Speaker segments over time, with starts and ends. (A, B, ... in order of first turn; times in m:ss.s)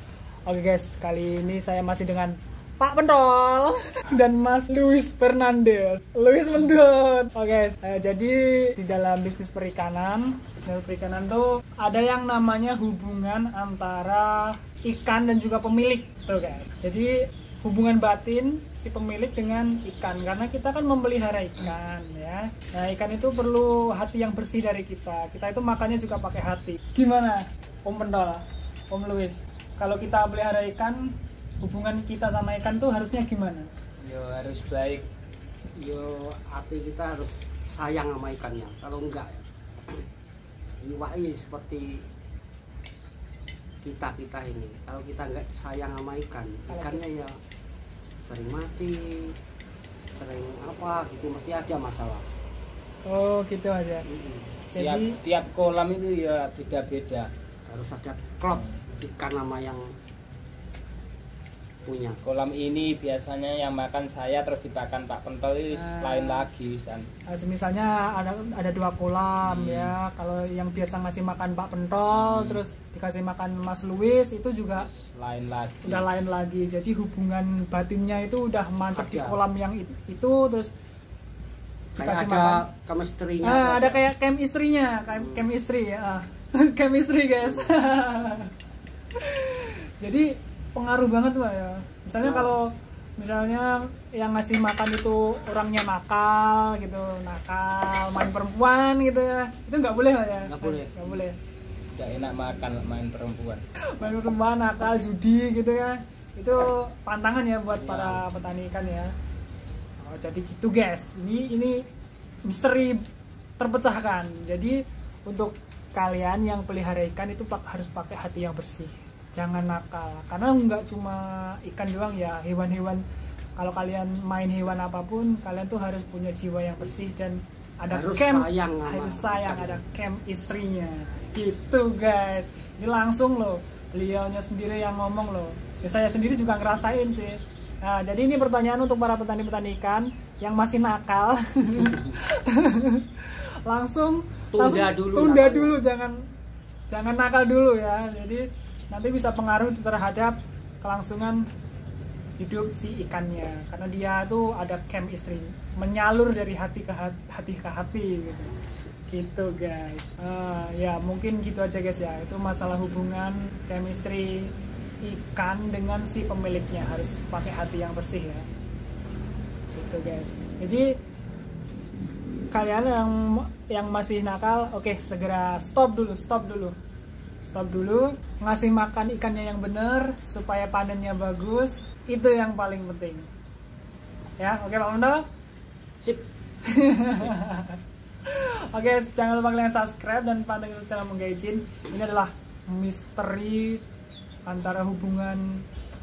0:00.4-0:33.7 A
0:34.0-0:35.0 B
0:35.8-0:40.0 C
0:40.8-0:41.9 C
0:43.8-0:47.3 C
0:46.7-0:47.0 A
0:48.2-0:49.4 C
0:50.1-0:52.2 C
0:53.1-0:54.1 A
0:54.0-0:54.6 C
0:54.7-0:55.2 A
0:54.8-0:57.3 B
0:57.7-0:59.8 C
1:01.8-1:02.2 C
1:02.2-1:07.1 B
1:05.7-1:06.5 A
1:07.3-1:14.9 A
1:09.4-1:09.9 B
1:12.1-1:12.6 B
1:14.8-1:16.0 B
1:15.8-1:20.7 A
1:18.9-1:19.4 C
1:21.9-1:24.1 C
1:22.0-1:22.6 A
1:23.4-1:28.5 A
1:25.1-1:25.5 C
1:27.4-1:27.7 C
1:29.2-1:41.4 A
1:32.2-1:32.5 C
1:40.4-1:41.2 C
1:41.9-1:43.6 B
1:44.0-1:49.1 A
1:47.7-1:48.2 B
1:50.0-1:51.8 A
1:52.4-1:53.0 A
1:53.6-2:03.0 A
2:03.6-2:26.2 A
2:07.9-2:09.8 C
2:24.5-2:25.8 C
2:26.9-2:31.4 A
2:32.4-2:38.5 A
2:39.1-2:44.5 A
2:45.0-2:48.4 A
2:49.7-2:50.9 A
2:52.5-2:56.7 A
2:57.4-3:03.3 A
3:04.4-3:05.2 A
3:06.0-3:06.3 C
3:06.6-3:13.8 A
3:14.4-3:15.6 A